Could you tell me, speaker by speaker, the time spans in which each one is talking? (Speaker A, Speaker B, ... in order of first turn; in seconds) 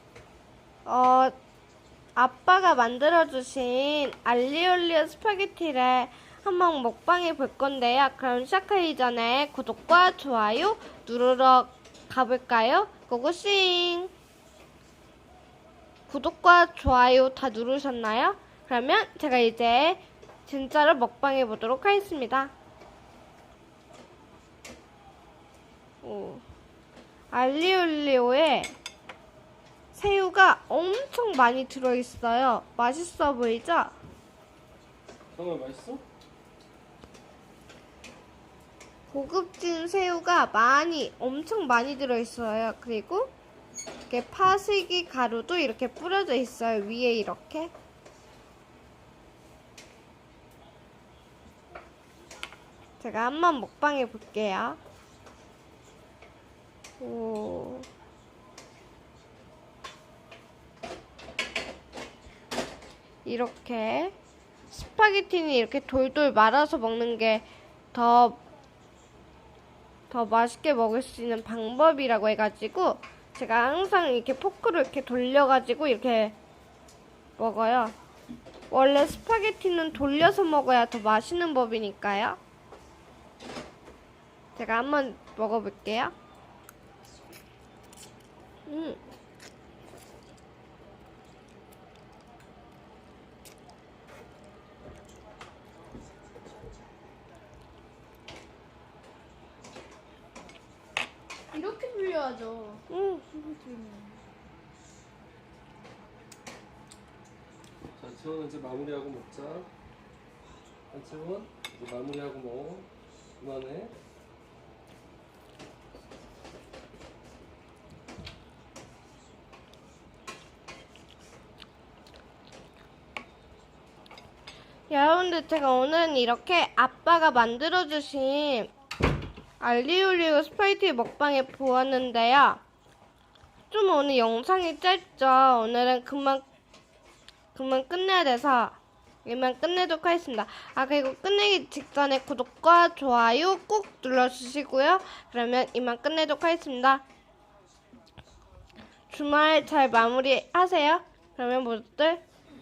Speaker A: 0.9-1.3, 2.2-14.1, 16.1-22.5, 26.0-26.4, 27.3-28.7, 29.9-33.9, 39.1-43.3, 44.1-47.7, 53.0-54.8, 57.0-57.9, 63.2-64.1, 64.7-68.4, 70.1-76.4, 77.4-78.0, 78.7-82.4, 84.5-86.1, 88.7-89.0, 102.9-103.2, 124.9-128.7, 129.6-132.6, 133.7-136.4, 137.5-147.0, 149.1-152.2
Speaker B: 35.3-36.0, 108.0-109.7, 110.9-113.9
Speaker C: 101.5-104.2